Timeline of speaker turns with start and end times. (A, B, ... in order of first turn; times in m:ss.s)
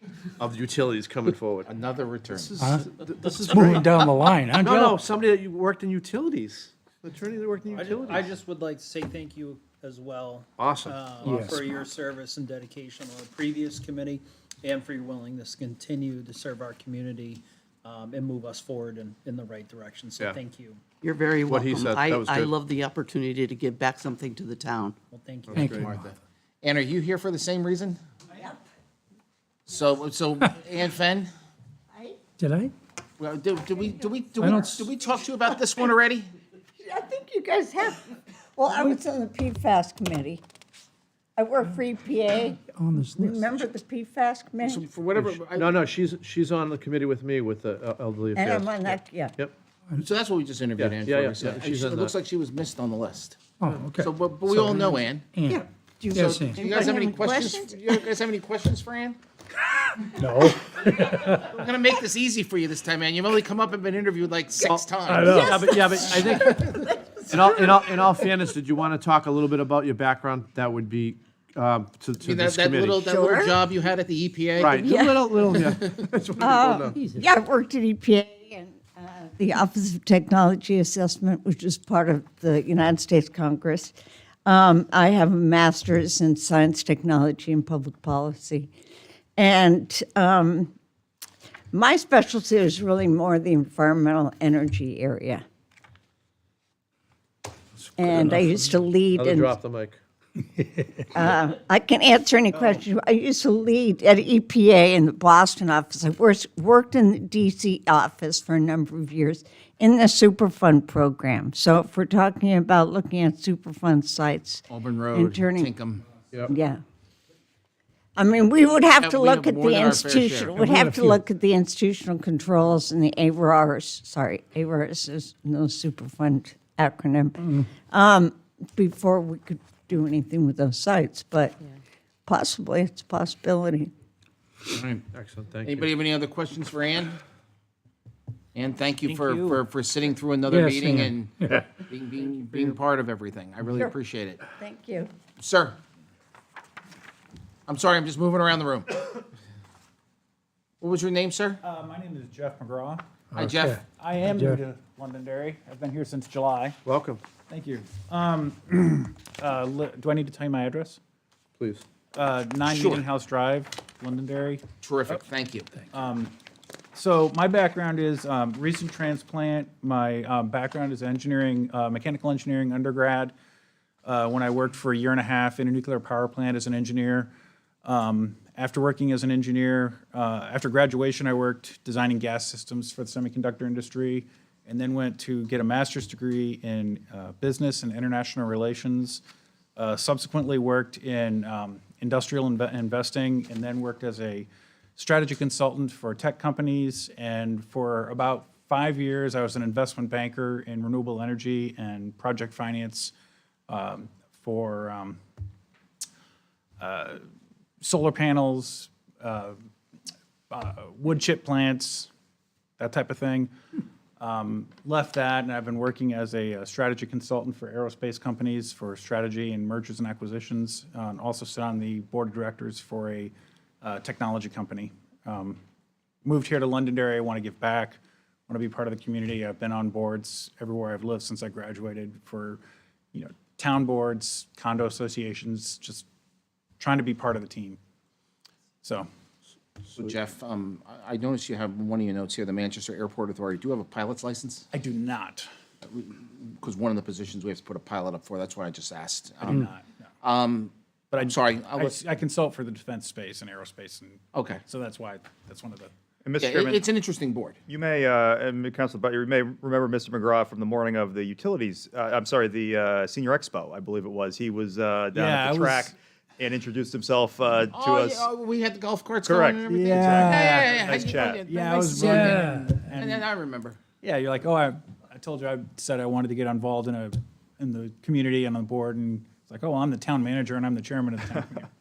0:00.4-0:01.7 A
0:01.7-0:02.5 B
0:02.3-0:04.0 A
0:02.6-0:05.0 C
0:04.6-0:08.3 A
0:08.1-0:20.8 D
0:10.6-0:11.3 A
0:11.2-0:11.8 C
0:21.0-0:24.9 E
0:21.4-0:22.5 A
0:25.1-0:25.5 D
0:25.5-0:25.9 A
0:25.5-0:26.0 C
0:25.5-0:28.0 B
0:29.7-0:31.3 B
0:31.9-0:32.2 F
0:32.4-0:32.7 C
0:33.2-0:36.3 B
0:34.4-0:34.9 C
0:36.8-0:40.4 F
0:41.4-0:44.8 F
0:42.7-0:43.5 C
0:44.6-0:45.7 B
0:45.2-0:49.5 A
0:48.3-0:49.4 F
0:50.0-0:55.3 B
0:50.8-0:52.1 A
0:53.6-0:56.7 C
0:55.5-0:58.0 F
0:56.1-0:59.2 B
1:00.1-1:01.5 C
1:01.3-1:05.7 B
1:04.6-1:06.7 A
1:05.0-1:05.6 C
1:07.3-1:13.0 A
1:12.2-1:14.8 B
1:13.0-1:13.6 F
1:14.6-1:17.0 A
1:14.7-1:15.5 F
1:15.5-1:16.1 B
1:16.4-1:23.9 F
1:24.4-1:28.7 F
1:29.4-1:30.7 F
1:31.7-1:35.4 F
1:37.8-1:40.0 A
1:38.0-1:39.6 F
1:41.1-1:55.7 F
1:54.7-1:56.0 B
1:56.5-1:56.8 F
1:58.2-2:11.6 F
1:59.0-2:00.6 B
2:00.6-2:01.2 C
2:12.2-2:13.9 F
2:14.7-2:15.0 B
2:15.1-2:15.9 A
2:15.6-2:17.2 B
2:18.5-2:24.4 B
2:19.0-2:19.6 G
2:20.5-2:21.6 C
2:24.6-2:25.1 F
2:25.4-2:25.8 B
2:27.7-2:28.9 B
2:30.8-2:31.6 B
2:31.6-2:33.0 G
2:33.3-2:34.6 C
2:33.3-2:33.8 B
2:34.0-2:36.8 G
2:36.8-2:37.2 A
2:37.5-2:41.0 G
2:41.6-2:41.8 A
2:42.1-2:45.2 G
2:42.7-2:43.0 B
2:44.8-2:45.7 B
2:45.9-2:46.3 G
2:46.9-2:53.3 G
2:54.0-2:57.3 G
2:57.8-3:09.2 G
3:09.8-3:23.1 G
3:23.7-3:25.2 G
3:26.8-3:27.2 G
3:27.8-3:29.6 G
3:30.5-3:32.1 G
3:32.8-3:33.5 G
3:34.2-3:45.6 G
3:46.2-3:52.6 G
3:53.1-3:56.1 G
3:56.8-3:57.8 G
3:58.8-3:59.1 G
3:59.9-4:04.6 B
4:04.7-4:05.5 G
4:05.9-4:09.7 B
4:09.4-4:09.9 G
4:10.2-4:12.0 B
4:11.1-4:15.9 G
4:14.3-4:14.6 B
4:16.2-4:16.9 H
4:16.4-4:17.6 B
4:17.7-4:28.3 H
4:25.1-4:25.9 G
4:27.7-4:33.8 B
4:29.2-4:31.4 H
4:29.7-4:33.2 G
4:34.0-4:41.7 G